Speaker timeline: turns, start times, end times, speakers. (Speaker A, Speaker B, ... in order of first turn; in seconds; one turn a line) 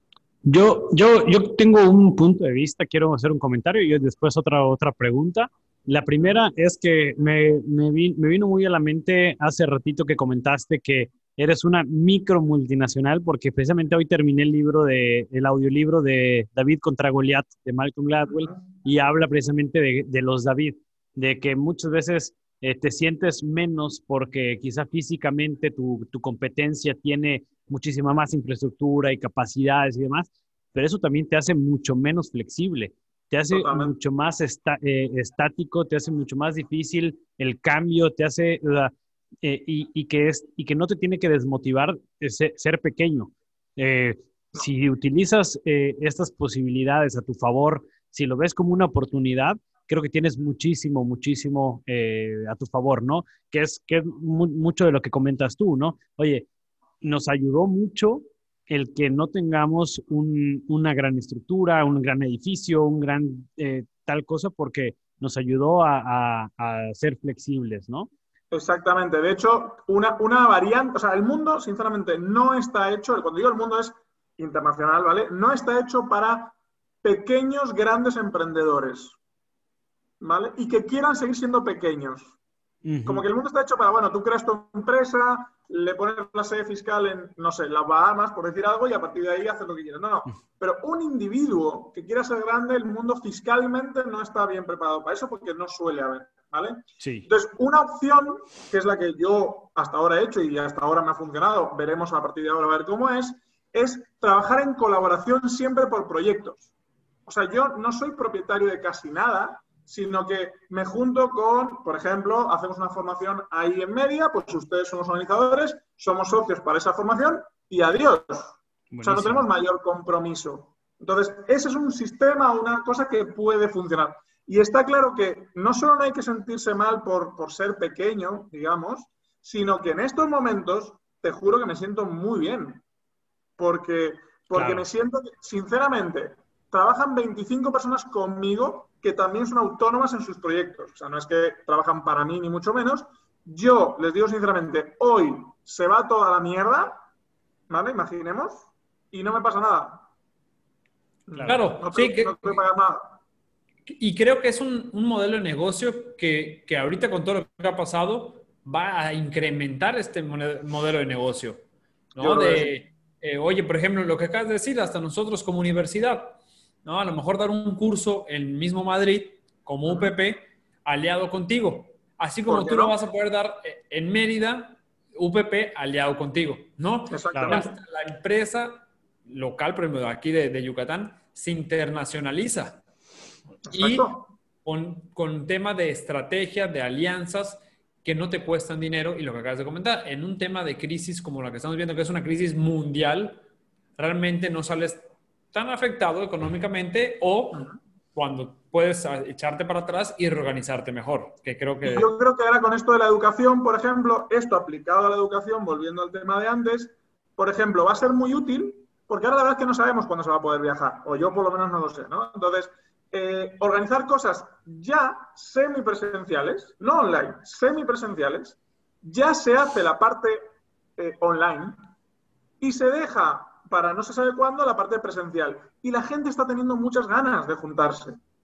Speaker A: 0.4-56.5
Speaker B: 33.5-33.9
Speaker A: 57.0-68.1
Speaker B: 68.5-79.2
Speaker B: 80.2-82.3
Speaker A: 82.8-83.2
Speaker B: 83.0-106.7
Speaker A: 97.0-97.3
Speaker B: 107.2-132.8
Speaker A: 118.9-119.5
Speaker B: 133.6-147.0
Speaker A: 134.5-134.9
Speaker B: 147.7-150.1
Speaker B: 151.3-153.2
Speaker C: 151.4-152.6
Speaker C: 154.0-161.6
Speaker C: 162.2-182.8
Speaker B: 162.2-162.7
Speaker B: 169.8-170.1
Speaker B: 172.5-172.9
Speaker B: 177.1-177.7
Speaker A: 177.3-177.6
Speaker B: 183.7-184.3
Speaker C: 183.7-184.1
Speaker C: 184.6-193.4
Speaker C: 194.0-202.1
Speaker B: 201.8-220.4
Speaker B: 221.0-221.8
Speaker B: 222.6-228.2